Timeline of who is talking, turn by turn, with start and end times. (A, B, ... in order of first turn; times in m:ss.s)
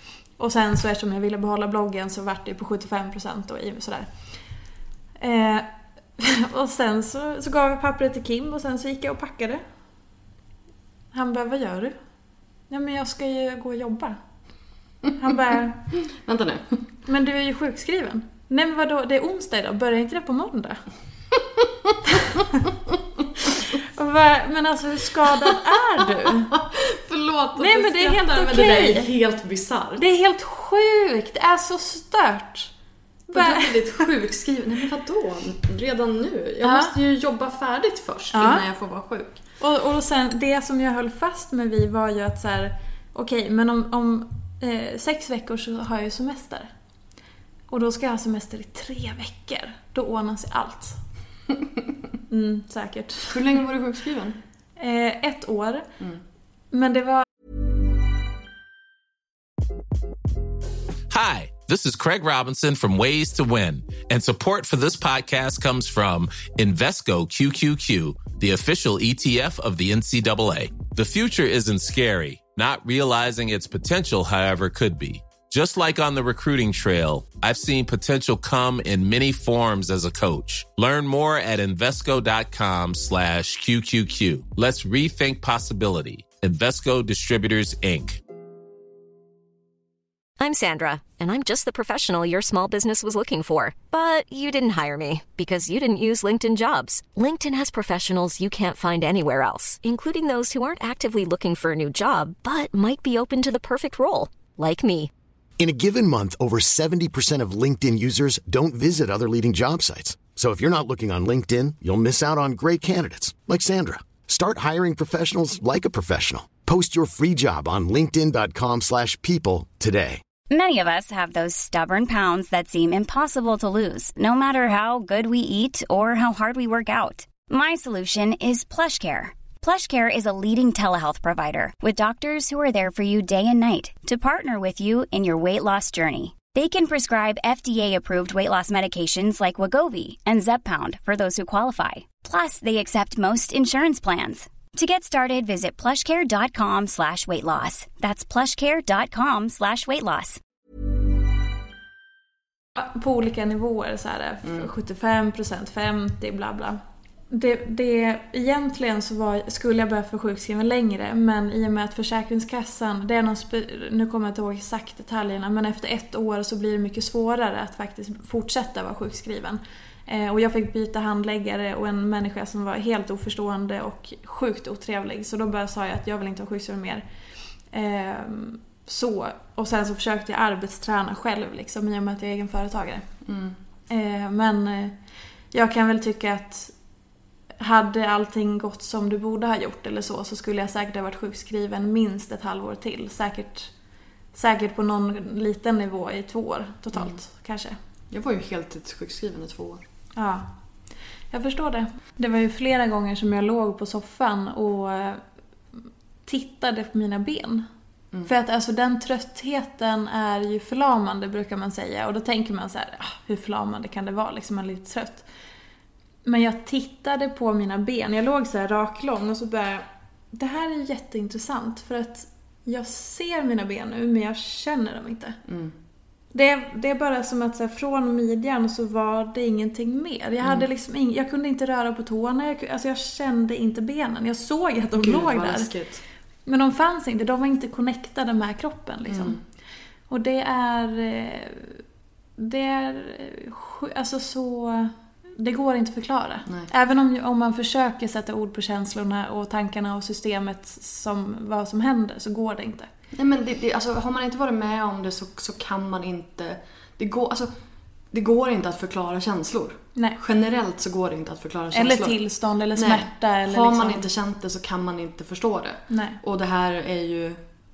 0:00.4-0:04.1 A
0:05.2-0:09.6 A
0:11.1-0:12.0 A
0:12.7-0:14.2 A
0:15.2-0:15.8 A
0:16.0-0:16.8 B
0:17.1-0:20.8 A
0:24.0-0:26.5 A
0:26.5-0:30.0 B
0:27.6-0:29.1 A
0:30.0-0:32.7 A
0:33.3-0:34.1 A
0:33.3-0:39.4 B
0:36.6-0:36.9 A
0:38.3-0:38.6 A
0:39.6-0:46.7 A
0:47.7-0:51.0 A
0:52.3-0:53.4 A
0:53.3-0:54.4 B
0:54.8-0:55.9 A
0:56.7-0:57.2 A
1:01.1-1:28.2 C
1:30.4-1:45.1 D
1:45.6-2:00.2 E
2:00.5-2:30.4 F
2:32.8-2:36.8 A
2:37.3-2:57.0 A
2:57.7-3:03.1 A
3:03.3-3:03.6 B
3:03.9-3:05.0 A
3:05.5-3:06.7 A
3:07.6-3:13.7 A
3:14.3-3:17.8 A
3:16.9-3:17.2 B
3:18.1-3:19.8 B
3:20.2-3:20.5 A
3:21.3-3:25.2 A
3:26.3-3:27.7 A
3:28.3-3:35.3 A
3:36.3-3:45.4 A
3:45.5-3:45.7 B
3:46.3-3:55.7 A
3:50.4-3:50.7 B
3:55.0-3:56.0 B
3:56.5-3:59.4 A
3:59.1-3:59.4 B
4:00.1-4:01.8 A
4:02.4-4:12.9 A
4:13.2-4:17.5 B
4:18.1-4:22.2 B
4:21.7-4:24.0 A
4:22.8-4:27.4 B
4:25.9-4:26.2 A